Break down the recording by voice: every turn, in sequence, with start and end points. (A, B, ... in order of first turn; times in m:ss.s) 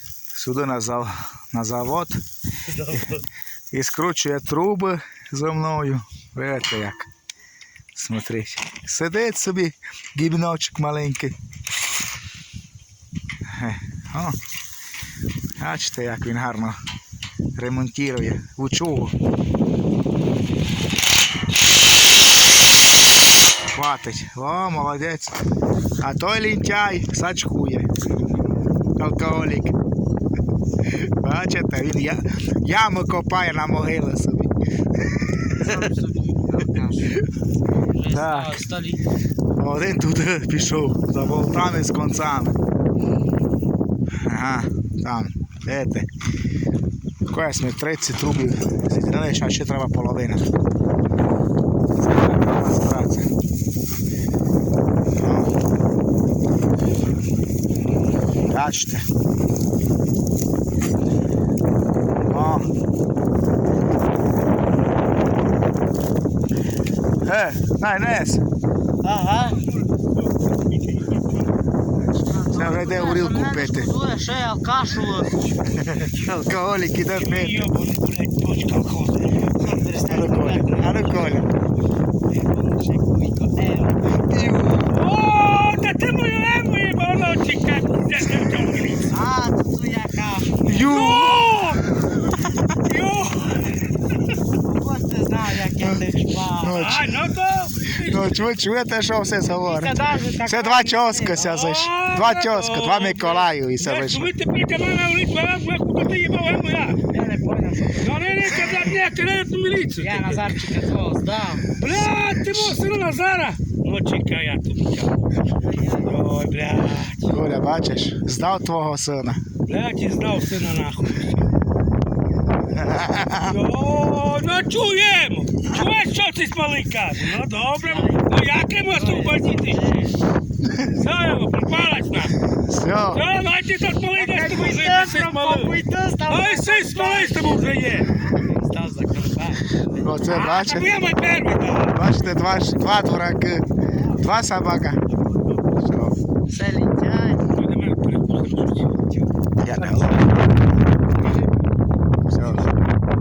0:00.3-0:02.2 A
0:02.7-0:03.2 B
0:03.7-0:07.1 A
0:07.9-0:11.4 A
0:13.5-0:14.4 A
0:15.6-0:16.8 A
0:17.6-0:19.2 A
0:23.7-0:25.4 A
0:26.0-0:27.9 A
0:29.0-0:29.7 A
0:30.9-0:34.5 A
0:35.2-0:35.7 A
0:35.5-0:37.2 B
0:37.8-0:39.0 B
0:38.1-0:38.7 A
0:39.6-0:42.6 A
0:44.2-0:46.1 A
0:47.3-0:50.5 A
0:52.0-0:53.3 A
0:55.2-0:55.5 A
0:58.4-0:59.0 A
1:02.3-1:02.7 A
1:07.2-1:08.4 A
1:09.0-1:09.6 B
1:10.9-1:11.2 C
1:12.2-1:15.4 B
1:12.5-1:13.9 A
1:15.9-1:17.6 A
1:17.1-1:19.7 C
1:19.5-1:21.4 B
1:20.0-1:21.5 A
1:22.3-1:24.2 B
1:24.2-1:24.9 A
1:24.8-1:29.2 C
1:29.1-1:31.2 B
1:30.6-1:31.5 A
1:30.8-1:31.9 C
1:32.6-1:34.3 C
1:34.6-1:36.9 B
1:36.6-1:37.1 A
1:36.7-1:38.5 C
1:38.0-1:44.3 A
1:39.5-1:41.6 B
1:41.4-1:47.1 C
1:47.1-1:48.9 B
1:48.0-1:50.6 C
1:50.0-1:51.8 B
1:51.7-1:55.2 C
1:55.6-1:56.4 B
1:55.9-1:57.4 C
1:57.2-1:59.4 A
1:59.6-2:01.5 C
2:02.7-2:03.5 A
2:03.3-2:10.1 C
2:07.8-2:10.1 B
2:10.9-2:12.4 C
2:12.5-2:13.2 A
2:13.1-2:18.2 C
2:14.1-2:20.1 B
2:20.0-2:21.0 A
2:20.2-2:22.0 C
2:21.8-2:25.0 A
2:22.2-2:23.0 B
2:25.8-2:26.1 A
2:26.5-2:27.5 B
2:27.4-2:28.9 C
2:29.6-2:30.2 A
2:29.8-2:30.4 C
2:32.3-2:32.7 A